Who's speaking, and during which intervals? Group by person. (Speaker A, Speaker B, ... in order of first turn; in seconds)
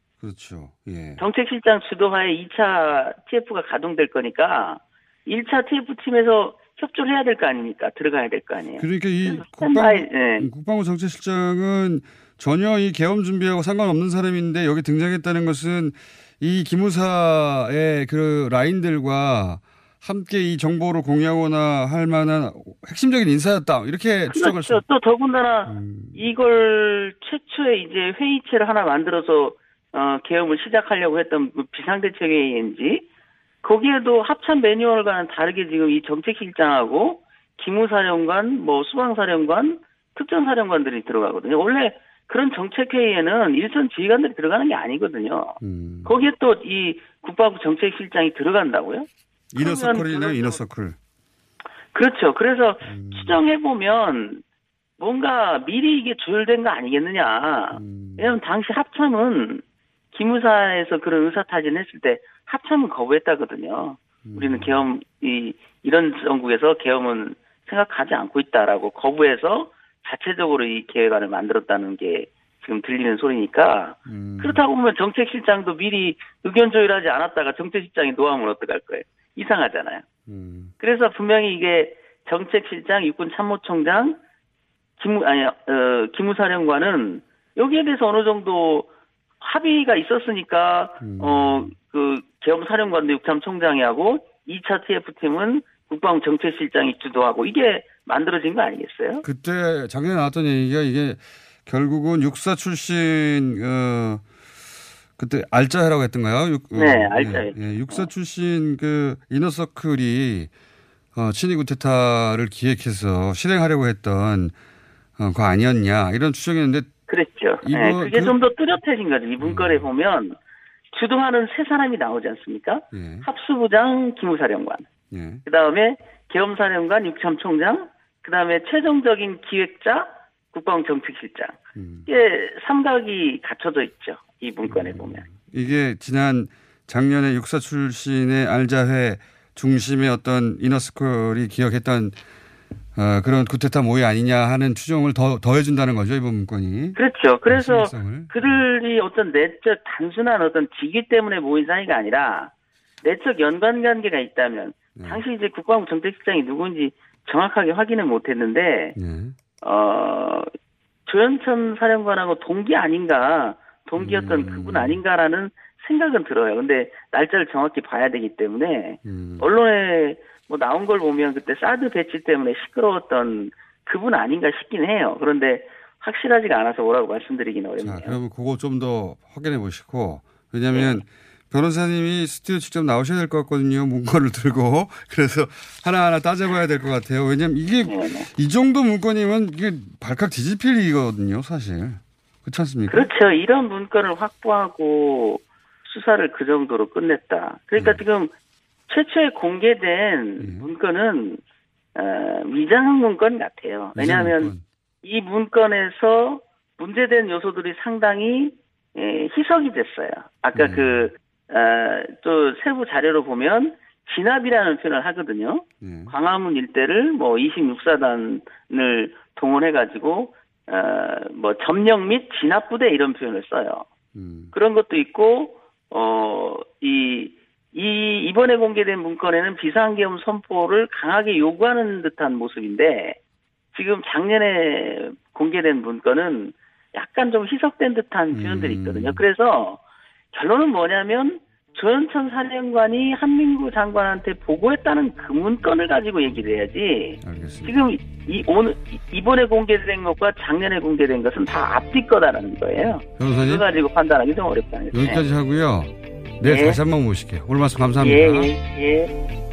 Speaker A: 0.2-1.2, 8.8-24.8, 25.6-26.2, 45.6-46.1, 49.5-51.0, 52.9-53.4, 57.7-58.3, 64.2-64.8, 74.1-74.6, 80.3-80.7, 91.0-91.7, 99.2-104.2, 105.2-110.5, 111.1-114.5, 115.2-116.9, 117.6-118.4, 119.4-119.9, 122.9-123.3, 125.1-125.4, 131.7-132.1, 134.7-142.2, 142.9-148.6, 154.9-155.2, 158.9-159.3, 163.9-165.0, 169.0-169.5, 177.8-193.1, 197.8-198.0, 200.4-200.7, 203.9-204.6, 210.5-211.1, 215.8-216.1, 224.1-224.5, 238.3-239.2, 247.2-247.8, 253.2-253.7, 254.9-258.5
Speaker B: 1.2-10.5, 24.3-33.0, 33.6-50.6, 51.9-54.4, 55.0-80.0, 80.8-84.2, 85.0-88.9, 89.4-99.2, 106.7-108.1, 117.1-120.4, 120.9-124.9, 125.5-135.2, 146.9-152.5, 153.0-158.9, 159.6-160.5, 161.1-178.2, 187.8-188.3, 192.9-198.3, 198.9-201.4, 201.9-204.5, 205.0-223.8, 224.5-233.2, 233.7-239.8, 240.3-255.2, 256.4-256.8, 258.0-259.1